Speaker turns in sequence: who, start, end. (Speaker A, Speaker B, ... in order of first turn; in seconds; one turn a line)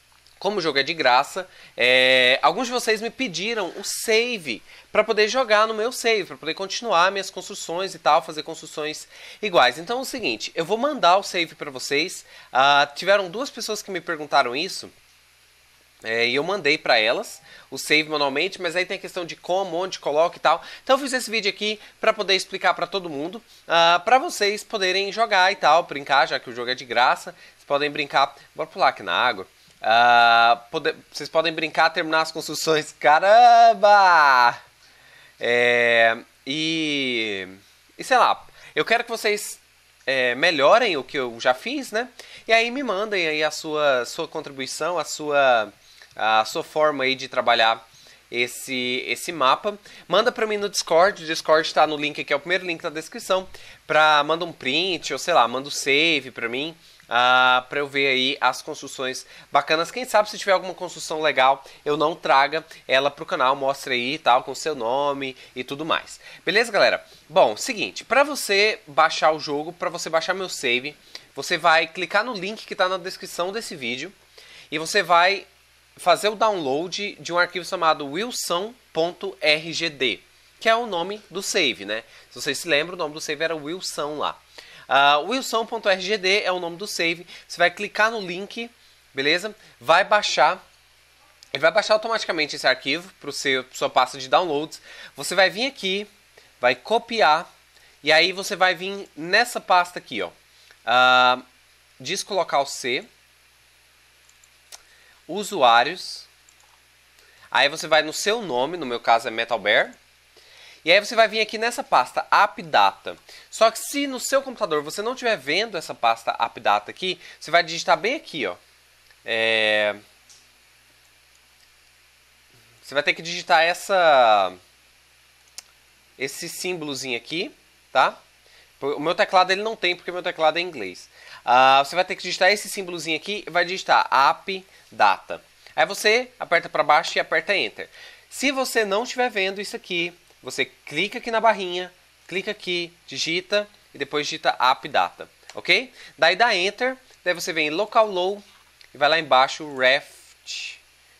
Speaker A: 0.4-14.9
Speaker A: 16.0-34.6
Speaker A: 35.4-74.1
Speaker A: 74.7-90.6
Speaker A: 91.5-96.1
Speaker A: 96.6-97.5
Speaker A: 98.0-100.3
Speaker A: 100.8-101.4
Speaker A: 102.0-103.1
Speaker A: 105.3-106.3
Speaker A: 107.5-110.0
Speaker A: 110.8-118.6
Speaker A: 119.2-120.0
Speaker A: 122.8-124.6
Speaker A: 126.2-128.2
Speaker A: 128.8-150.8